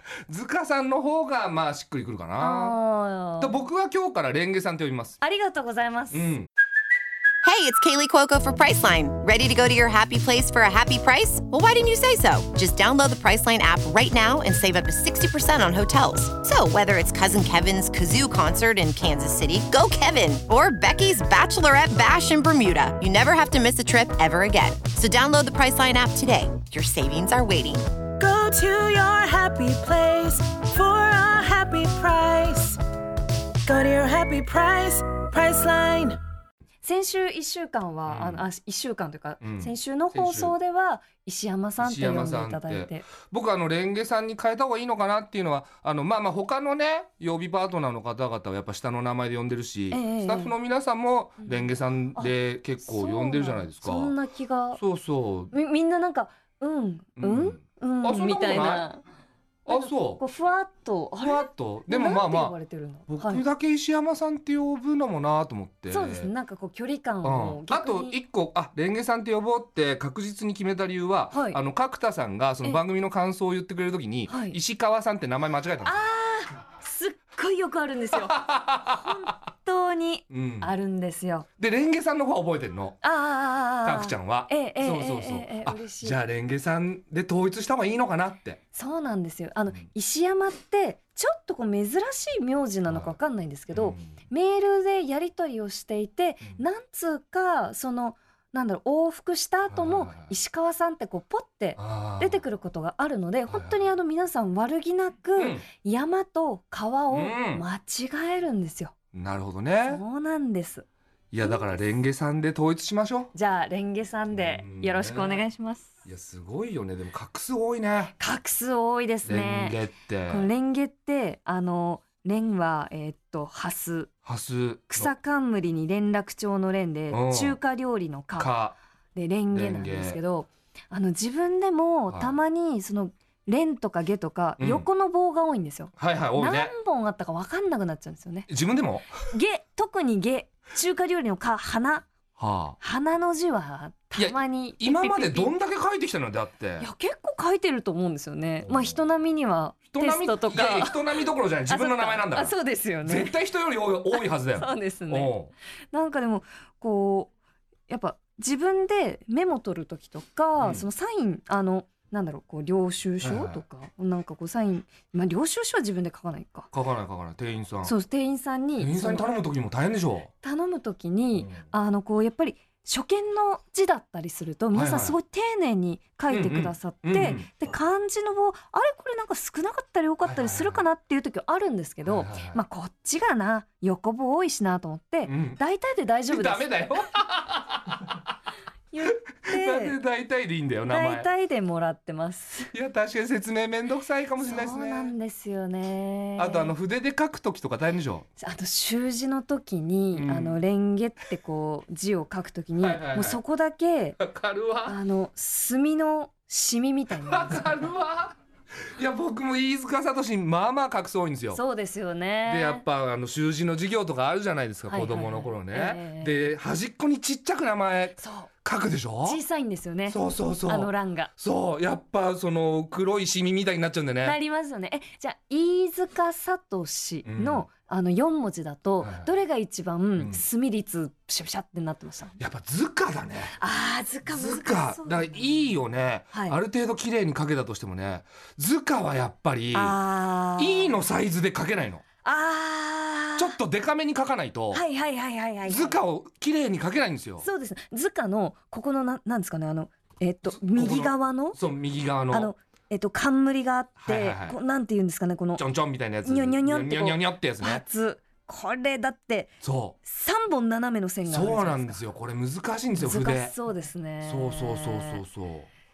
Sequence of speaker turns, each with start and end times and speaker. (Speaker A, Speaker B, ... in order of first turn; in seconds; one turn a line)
Speaker A: 0.3-2.8
Speaker B: 2.4-3.6
Speaker A: 3.4-5.2
Speaker B: 5.2-6.3
Speaker A: 6.1-6.5
Speaker C: 7.4-27.8
Speaker D: 28.2-32.8
Speaker D: 33.6-36.2
Speaker B: 36.8-43.1
Speaker A: 38.1-38.5
Speaker A: 39.4-40.5
Speaker A: 41.8-54.1
Speaker B: 49.9-50.5
Speaker B: 51.4-54.8
Speaker A: 54.8-55.5
Speaker B: 55.5-59.0
Speaker A: 57.2-58.9
Speaker A: 59.6-60.2
Speaker B: 59.7-63.4
Speaker A: 61.2-62.6
Speaker A: 63.1-66.3
Speaker B: 65.9-68.2
Speaker A: 67.2-76.0
Speaker B: 71.3-71.6
Speaker B: 74.3-74.6
Speaker B: 75.8-81.5
Speaker A: 78.2-79.1
Speaker A: 80.3-80.7
Speaker A: 81.6-83.0
Speaker B: 83.0-86.2
Speaker A: 83.8-88.6
Speaker B: 88.7-108.9
Speaker A: 92.9-93.1
Speaker A: 93.7-94.0
Speaker A: 99.7-100.3
Speaker A: 101.8-102.4
Speaker A: 103.5-103.8
Speaker A: 105.3-105.6
Speaker A: 107.1-107.6
Speaker A: 109.1-110.0
Speaker B: 109.9-110.8
Speaker A: 111.3-113.3
Speaker B: 113.3-115.9
Speaker A: 114.3-115.4
Speaker A: 116.0-118.1
Speaker B: 118.2-124.1
Speaker A: 119.2-120.5
Speaker A: 124.2-125.1
Speaker B: 124.9-128.5
Speaker A: 127.1-127.6
Speaker A: 128.3-128.8
Speaker B: 129.1-138.5
Speaker A: 129.5-130.2
Speaker A: 132.1-132.3
Speaker A: 134.6-134.8
Speaker A: 136.0-136.7
Speaker A: 138.5-139.1
Speaker B: 139.3-142.1
Speaker A: 142.4-142.8
Speaker B: 142.8-145.5
Speaker A: 144.2-146.9
Speaker B: 146.8-153.3
Speaker A: 148.6-149.0
Speaker A: 149.9-155.5
Speaker B: 154.1-155.3
Speaker B: 155.9-157.3
Speaker B: 157.9-166.7
Speaker A: 160.6-160.8
Speaker A: 163.2-163.6
Speaker A: 166.7-167.9
Speaker B: 167.8-169.4
Speaker A: 168.8-170.3
Speaker B: 170.4-186.8
Speaker A: 174.7-175.2
Speaker A: 176.3-177.5
Speaker A: 180.2-180.8
Speaker A: 182.0-182.6
Speaker A: 185.2-185.6
Speaker A: 186.3-188.2
Speaker B: 188.9-190.0
Speaker A: 189.0-191.3
Speaker B: 190.9-192.7
Speaker A: 192.7-195.1
Speaker B: 194.4-196.7
Speaker A: 196.4-198.2
Speaker B: 198.4-204.2
Speaker A: 200.1-200.6
Speaker A: 202.8-203.4
Speaker A: 204.2-205.0
Speaker B: 204.8-207.9
Speaker A: 207.2-208.4
Speaker A: 208.9-211.6
Speaker B: 211.5-212.8
Speaker A: 212.4-219.4
Speaker B: 214.9-216.4
Speaker B: 218.2-218.5
Speaker B: 219.2-221.3
Speaker A: 220.1-224.4
Speaker B: 224.2-232.4
Speaker A: 227.2-227.7
Speaker A: 229.0-229.3
Speaker A: 230.1-230.4
Speaker A: 232.4-233.6
Speaker B: 233.6-235.7
Speaker A: 234.2-240.0
Speaker B: 239.7-241.0
Speaker A: 240.6-242.0
Speaker B: 242.2-243.6
Speaker A: 243.4-244.8
Speaker B: 244.7-246.0
Speaker A: 245.6-247.4
Speaker B: 247.4-251.6
Speaker A: 250.5-252.5
Speaker B: 252.3-255.6
Speaker A: 254.0-254.6
Speaker A: 255.6-257.8
Speaker B: 256.2-259.5
Speaker A: 259.6-260.0
Speaker B: 260.0-262.0
Speaker A: 261.3-263.5
Speaker B: 263.0-265.2
Speaker A: 264.2-265.7